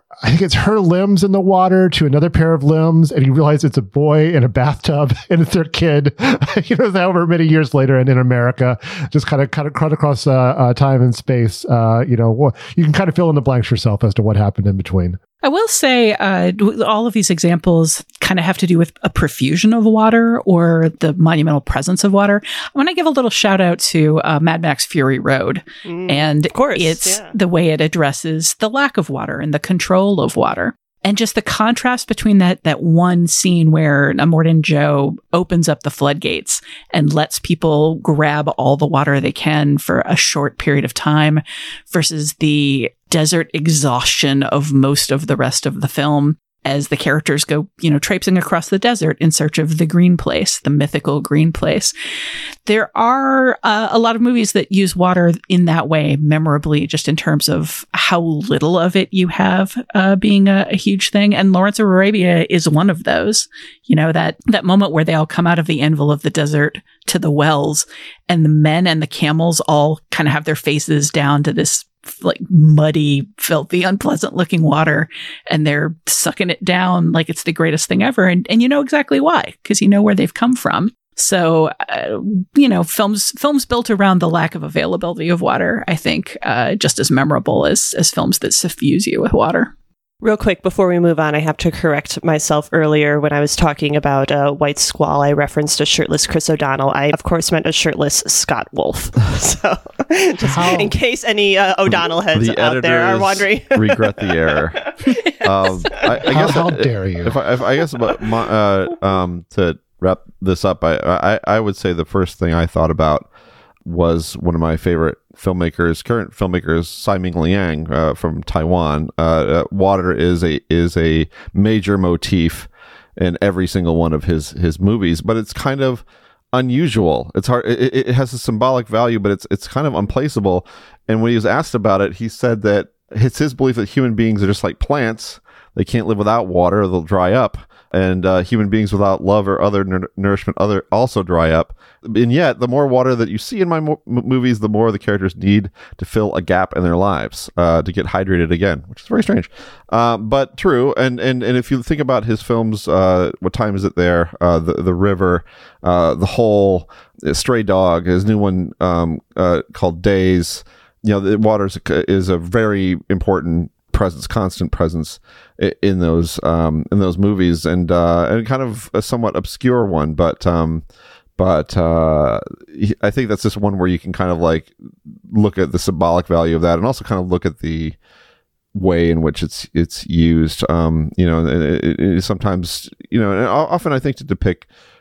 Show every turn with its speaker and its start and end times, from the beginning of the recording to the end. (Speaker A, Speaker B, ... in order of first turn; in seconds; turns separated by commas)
Speaker A: 0.2-15.2, Speaker B: 15.4-51.9, Speaker C: 25.9-27.3, Speaker B: 52.7-89.7, Speaker C: 90.2-104.6, Speaker A: 100.5-100.9, Speaker D: 102.3-104.9, Speaker D: 105.4-113.3, Speaker A: 106.2-107.4, Speaker D: 113.8-170.8, Speaker D: 171.4-174.7, Speaker D: 175.3-178.0, Speaker D: 178.7-184.7